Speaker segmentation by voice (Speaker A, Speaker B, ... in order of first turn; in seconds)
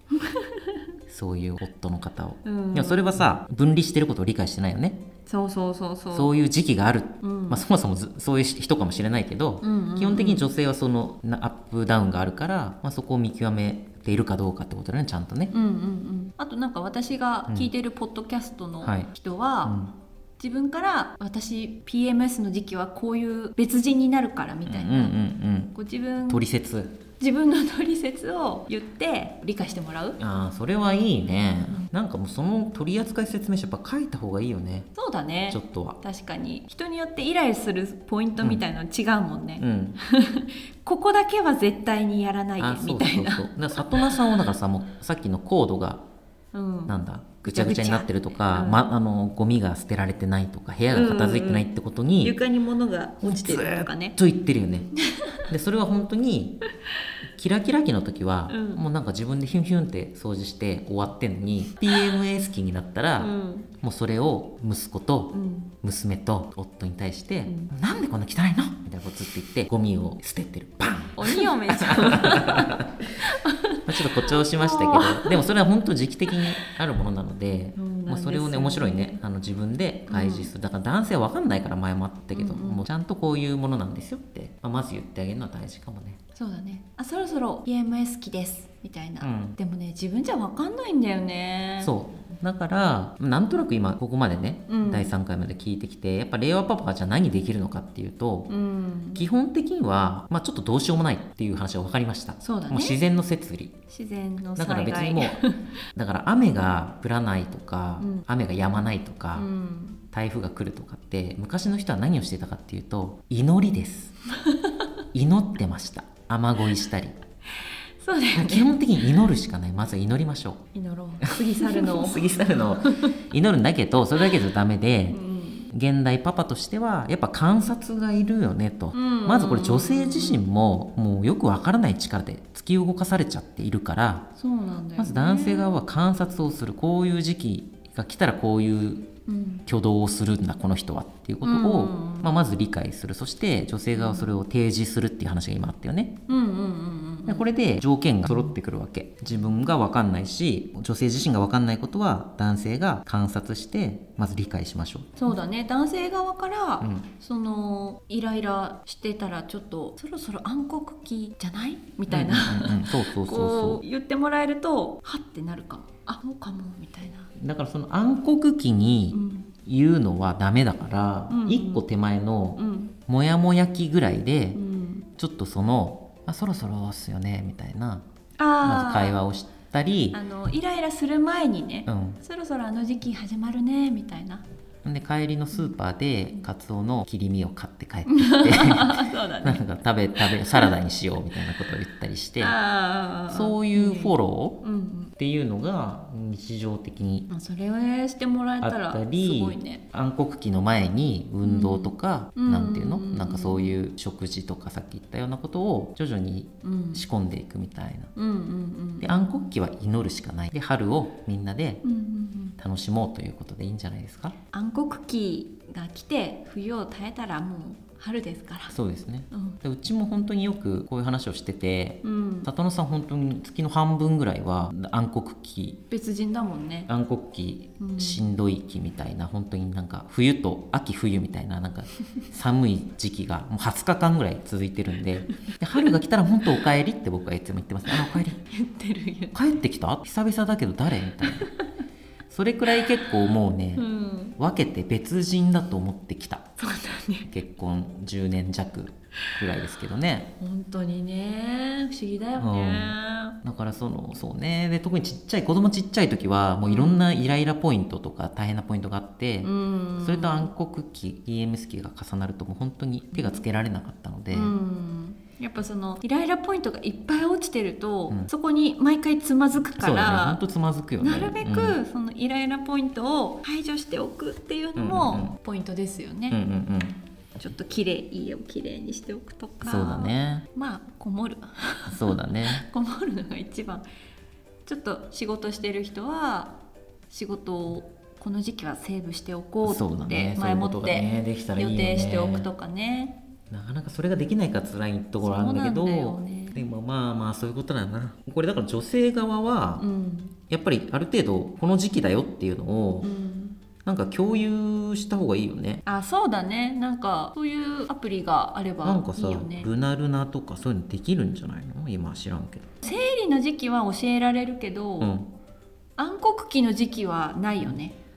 Speaker A: 0.1-0.8, 2.5-3.2, 5.3-6.3, 7.2-7.6, 9.6-10.5, 15.5-19.8, 20.4-25.2, 25.7-26.4, 27.2-30.2, 35.0-44.4, 46.5-48.8, 50.9-51.7, 52.2-54.2, 58.5-58.8, 61.9-62.2, 63.2-63.7, 65.3-65.7, 67.5-67.7, 71.2-75.4, 77.8-79.2, 80.1-80.5, 82.3-82.8, 86.3-91.9, 94.7-95.1, 98.5-99.3, 102.4-103.0, 103.9-105.7, 108.0-108.3, 109.3-110.0, 114.3-114.9, 117.6-119.1, 120.7-123.3, 125.1-125.7, 128.9-130.4, 134.4-135.7, 139.3-139.7, 141.4-142.3, 143.9-144.3, 146.3-147.5, 155.2-167.3, 169.1-169.5, 171.3-171.8, 172.6-172.9, 174.6-175.1, 178.4-179.2, 180.1-184.4, 188.1-189.6, 190.2-190.7, 192.4-195.1, 197.3-199.8, 201.4-203.8, 206.6-207.1, 208.2-209.2, 211.8-212.6, 214.5-218.8, 219.3-219.6, 222.0-222.5, 225.9-226.9, 227.8-228.3, 237.9-239.3, 241.2-241.7, 243.8-244.4, 246.6-247.3, 250.4-253.4, 256.6-257.0, 259.4-260.5, 263.1-263.4, 264.3-270.4, 271.0-276.4, 277.4-283.9, 284.7-286.6, 287.1-293.2, 295.2-296.7, 299.8-300.4, 303.0-303.6, 305.9-309.7, 312.8-315.1, 316.0-318.0
Speaker B: 1.1-5.0, 6.1-15.5, 18.8-19.1, 19.6-19.9, 24.7-25.7, 26.3-27.0, 30.2-34.9, 35.5-36.0, 39.6-40.0, 42.6-46.0, 46.9-52.4, 53.2-54.9, 55.5-56.6, 57.3-73.0, 73.9-86.2, 89.2-89.6, 91.8-98.5, 99.2-103.8, 104.6-105.4, 106.0-109.5, 110.1-114.2, 115.1-117.2, 118.3-120.6, 121.2-134.3, 135.0-139.1, 139.7-146.2, 147.3-155.3, 156.8-157.1, 162.1-163.8, 167.4-174.6, 175.2-178.1, 178.6-180.2, 181.9-182.2, 184.8-192.6, 193.3-194.7, 195.2-197.3, 198.6-208.1, 209.0-211.8, 212.6-214.4, 218.7-225.8, 226.9-238.4, 239.3-241.5, 242.3-246.5, 247.3-250.3, 252.4-264.6, 269.8-271.8, 274.8-275.4, 276.3-277.0, 279.6-280.5, 281.9-282.6, 289.6-292.5, 293.5-299.9, 300.5-303.1, 303.8-305.8, 308.8-312.7, 315.0-315.3